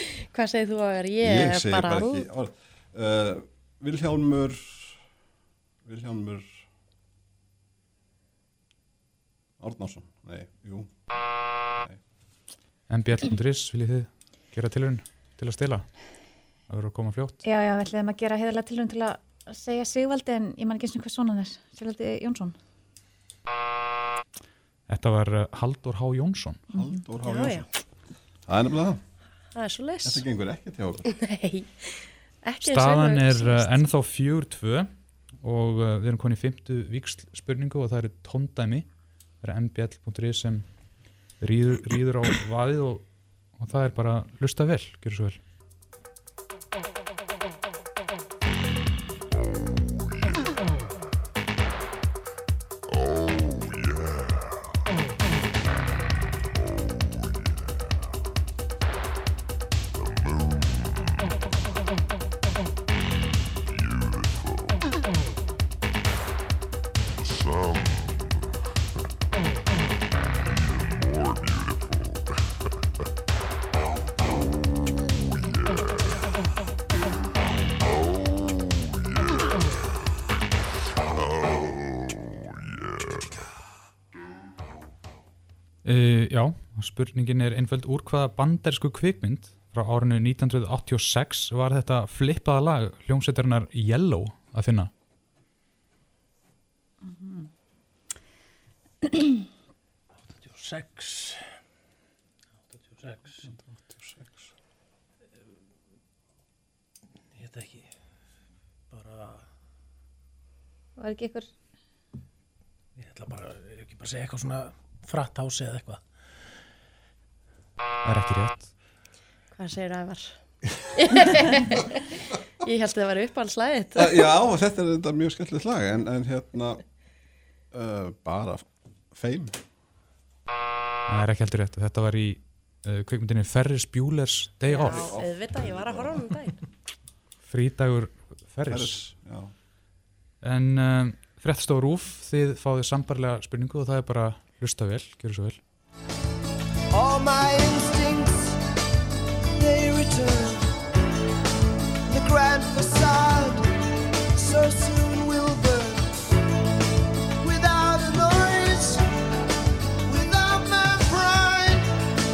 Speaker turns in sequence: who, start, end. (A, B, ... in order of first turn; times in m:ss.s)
0:00.3-0:02.2 A
0:01.2-0:05.0 B
0:05.8-0:06.6 B
0:09.6-0:10.9 B
0:12.9-0:15.9 C
0:16.7-0:17.4 C
0:17.4-0:22.5 D
0:24.9-0:26.6 C
0:26.7-0:27.0 D
0:26.8-0:27.7 B
0:27.2-0:27.6 A
0:28.5-0:29.0 B
0:29.5-0:30.2 A
0:30.0-0:31.0 B
0:31.0-0:33.8 A
0:32.6-0:34.9 C
0:35.4-0:38.9 C
0:39.4-0:40.7 C
0:41.4-0:43.0 C
0:43.6-0:45.4 C
1:25.8-1:34.9 C
1:37.0-1:37.5 D
1:40.3-1:41.4 E
1:42.7-1:43.5 E
1:47.3-1:47.9 E
1:48.9-1:49.5 E
1:51.0-1:51.5 D
1:53.0-1:56.1 E
1:58.0-1:58.7 C
1:59.5-2:00.4 A
2:01.0-2:02.0 A
2:02.6-2:04.2 A
2:04.0-2:06.8 B
2:07.7-2:09.6 B
2:11.1-2:15.1 C
2:14.7-2:16.6 A
2:14.7-2:16.3 B
2:17.5-2:19.0 C
2:18.7-2:19.5 B
2:20.4-2:25.6 C
2:26.9-2:28.6 F
2:29.6-2:30.8 F
2:32.1-2:33.6 F
2:34.3-2:36.4 F
2:37.4-2:39.0 F
2:40.0-2:41.9 F